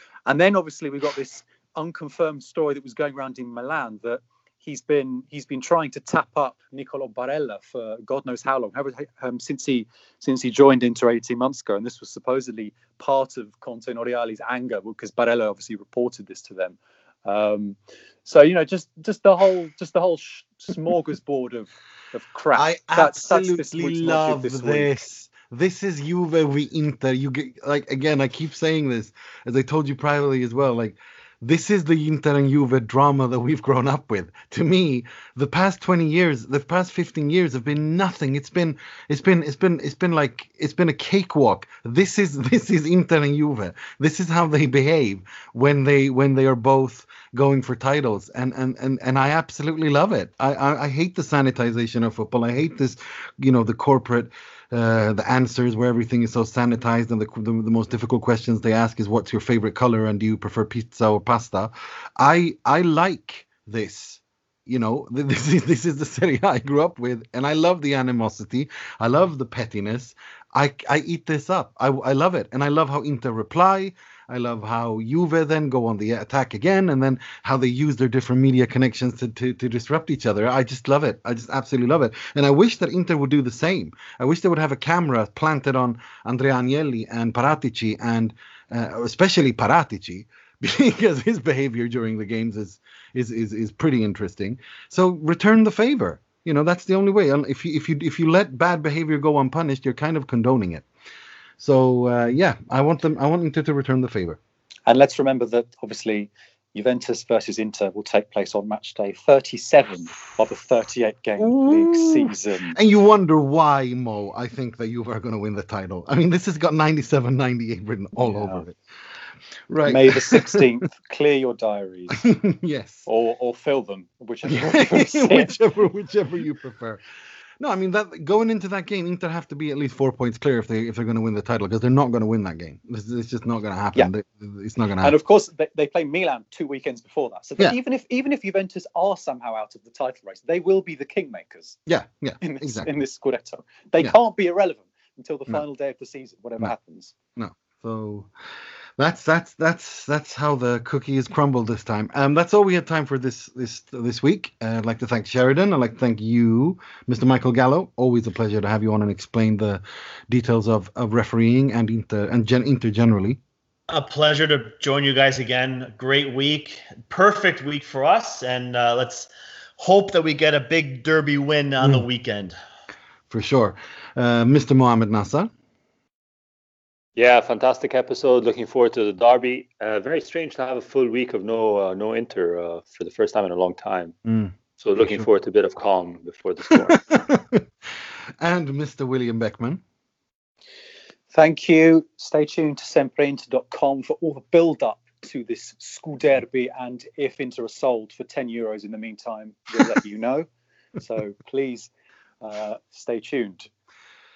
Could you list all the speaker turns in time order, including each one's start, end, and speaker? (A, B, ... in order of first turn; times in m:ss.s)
0:00.3-0:25.0 A
0:22.5-1:40.9 B
1:41.6-1:44.4 B
1:44.9-1:52.8 A
1:51.4-1:58.8 B
1:58.2-1:58.6 A
1:59.7-2:00.6 B
1:59.8-2:02.2 A
2:02.1-2:03.1 B
2:03.1-2:05.6 A
2:04.4-2:07.0 B
2:07.6-2:15.2 B
2:15.0-2:21.8 A
2:21.9-2:22.9 B
2:22.4-2:27.2 A
2:27.4-2:28.3 B
2:29.0-2:43.4 B
2:43.9-2:52.6 C
2:53.3-2:55.5 B
2:57.2-3:04.2 D
3:04.2-3:05.3 B
3:04.8-3:07.0 D
3:07.1-3:07.6 B
3:08.4-3:09.8 B
3:11.3-3:20.5 A
3:21.0-3:21.9 A
3:22.4-3:23.7 A